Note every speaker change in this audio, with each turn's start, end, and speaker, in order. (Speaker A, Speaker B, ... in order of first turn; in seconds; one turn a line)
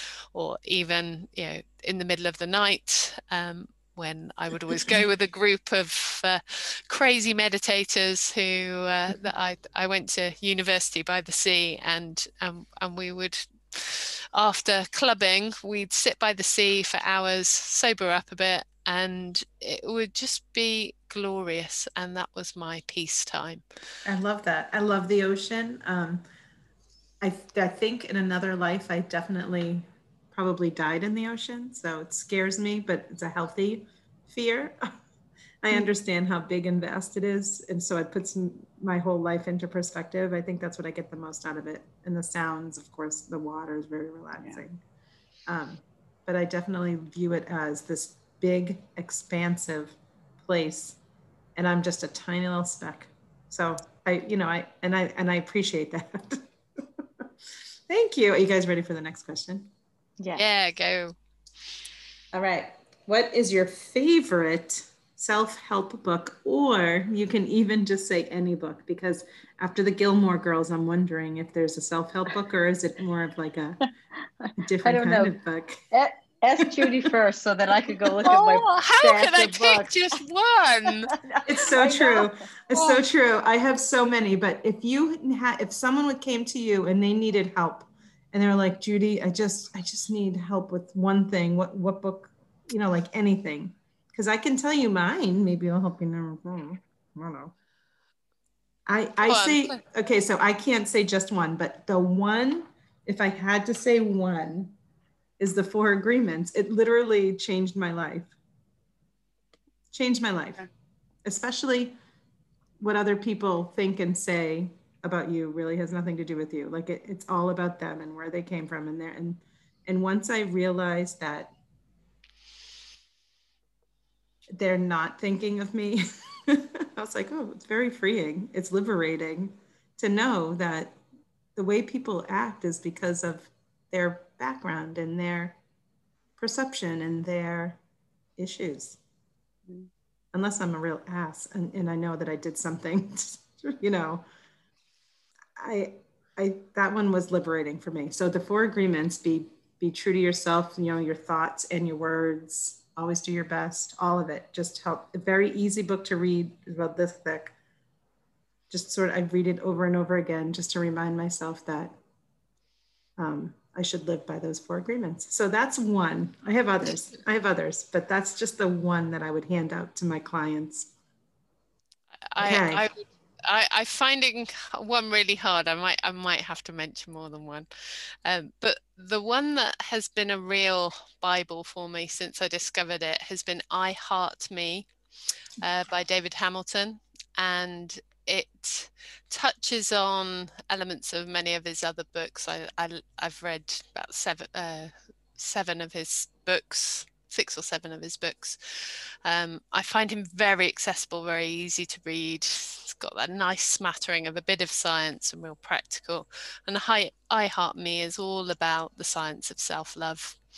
Speaker A: 0.3-23.6
Speaker B: 24.1-26.2
Speaker B: 27.2-34.9
Speaker B: 35.6-44.8
Speaker B: 45.5-51.0
Speaker B: 51.6-56.5
Speaker B: 57.9-59.7
Speaker A: 60.4-61.1
Speaker B: 62.3-73.8
Speaker C: 74.4-75.4
Speaker B: 74.6-75.8
Speaker C: 75.9-80.2
Speaker B: 76.6-77.0
Speaker A: 78.2-81.1
Speaker C: 80.9-83.0
Speaker B: 81.5-97.5
Speaker B: 98.9-104.7
Speaker A: 99.2-99.8
Speaker B: 105.4-108.3
Speaker B: 109.9-110.7
Speaker B: 111.2-112.0
Speaker B: 112.8-121.5
Speaker B: 124.5-131.0
Speaker B: 131.6-135.6
Speaker B: 136.4-137.8
Speaker B: 138.4-139.0
Speaker B: 140.3-144.2
Speaker B: 145.6-157.5
Speaker B: 158.7-162.0
Speaker B: 163.2-170.9
Speaker A: 172.3-177.7
Speaker B: 172.4-172.8
Speaker A: 178.2-184.9
Speaker A: 185.6-210.4